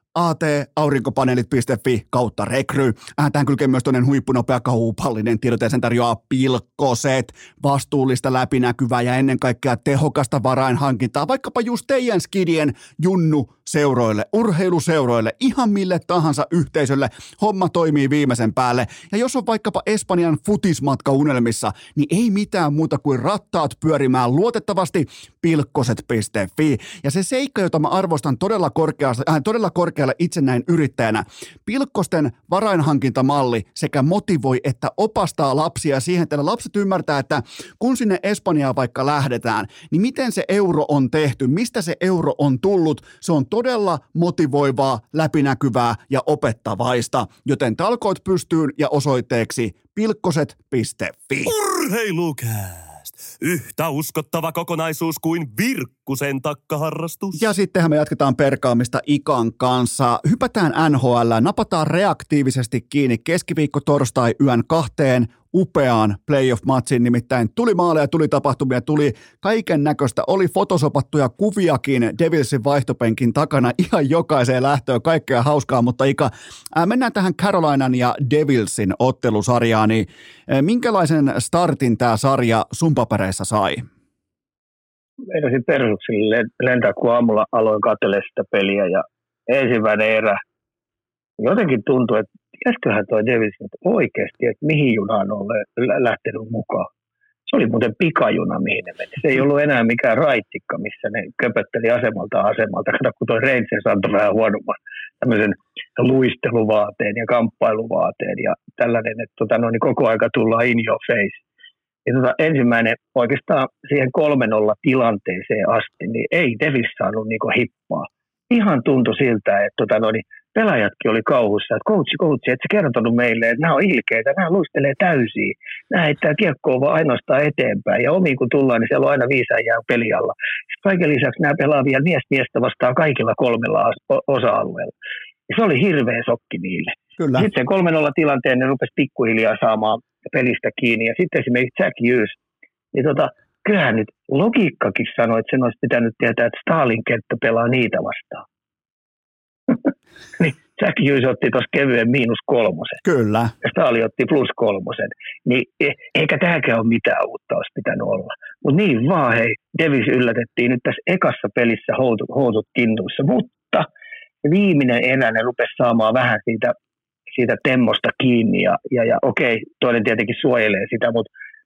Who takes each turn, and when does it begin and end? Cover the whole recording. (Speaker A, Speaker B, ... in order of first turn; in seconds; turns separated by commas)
Speaker A: 0.1-51.5, Speaker B: 51.5-57.4, Speaker A: 57.3-83.8, Speaker C: 85.3-90.4, Speaker C: 91.4-96.9, Speaker C: 97.5-111.4, Speaker C: 112.0-134.9, Speaker C: 135.5-142.4, Speaker A: 137.2-137.5, Speaker C: 142.9-148.4, Speaker C: 150.4-153.0, Speaker A: 153.0-153.5, Speaker C: 153.6-163.9, Speaker C: 164.4-166.7, Speaker C: 167.3-171.3